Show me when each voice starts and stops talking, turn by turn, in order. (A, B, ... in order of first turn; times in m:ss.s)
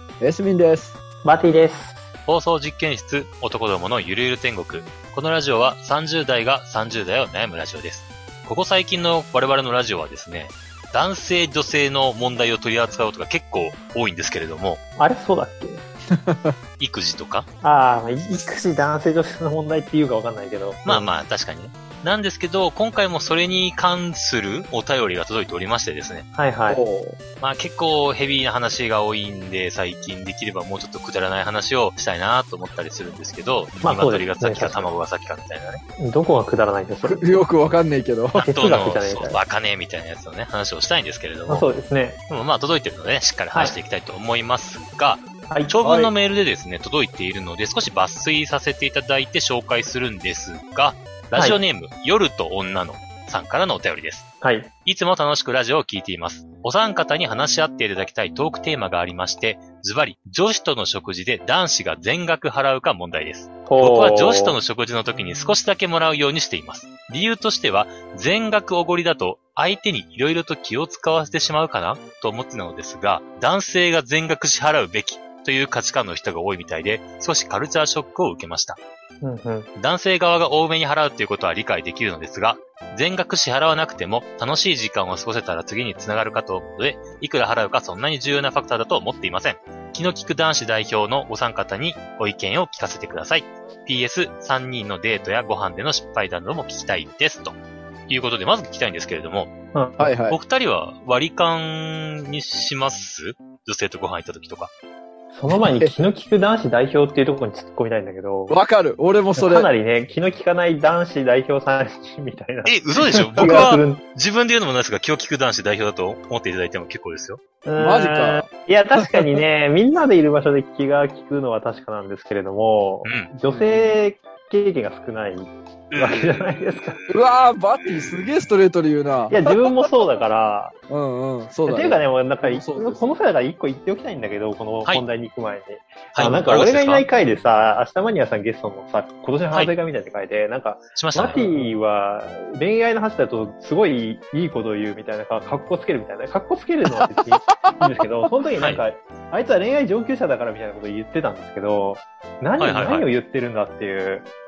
0:00.2-0:01.0 A
0:01.2-0:02.1 B
0:02.3-0:14.8 C
0:15.0-0:15.8 B
0:16.1-0:16.5 A
0:16.8-0:17.5 C
0:17.6-0:21.1 B
0:20.8-0:26.3 C
0:26.3-0:26.8 B
0:26.7-0:27.2 A
0:27.4-0:35.8 C
0:33.8-0:34.9 B
0:36.0-0:37.2 B
0:37.0-0:38.5 A
0:38.4-0:41.7 C
0:38.4-0:39.4 B
0:41.5-0:42.2 B
0:42.3-0:54.3 C
0:45.5-0:46.1 B
0:51.3-0:51.6 B
0:54.4-0:54.7 B
0:54.8-1:18.8 C
1:03.6-1:04.6 B
1:19.2-1:19.7 B
1:19.8-1:37.5 C
1:38.1-1:39.5 C
1:39.7-1:40.1 B
1:40.0-1:40.4 A
1:40.3-1:44.7 C
1:45.3-1:48.6 B
1:45.5-1:46.0 A
1:48.5-1:49.7 A
1:49.4-1:54.0 B
1:52.6-1:57.4 C
1:57.6-2:07.0 B
1:57.8-1:58.5 A
1:59.0-1:59.3 A
2:03.0-2:03.3 C
2:03.5-2:03.9 A
2:05.9-2:06.4 C
2:07.1-2:09.9 A
2:09.3-2:10.8 B
2:10.9-2:13.2 A
2:11.6-2:34.3 B
2:16.1-2:17.0 C
2:20.9-2:21.4 C
2:21.3-2:21.7 A
2:27.0-2:27.8 A
2:32.6-2:33.0 C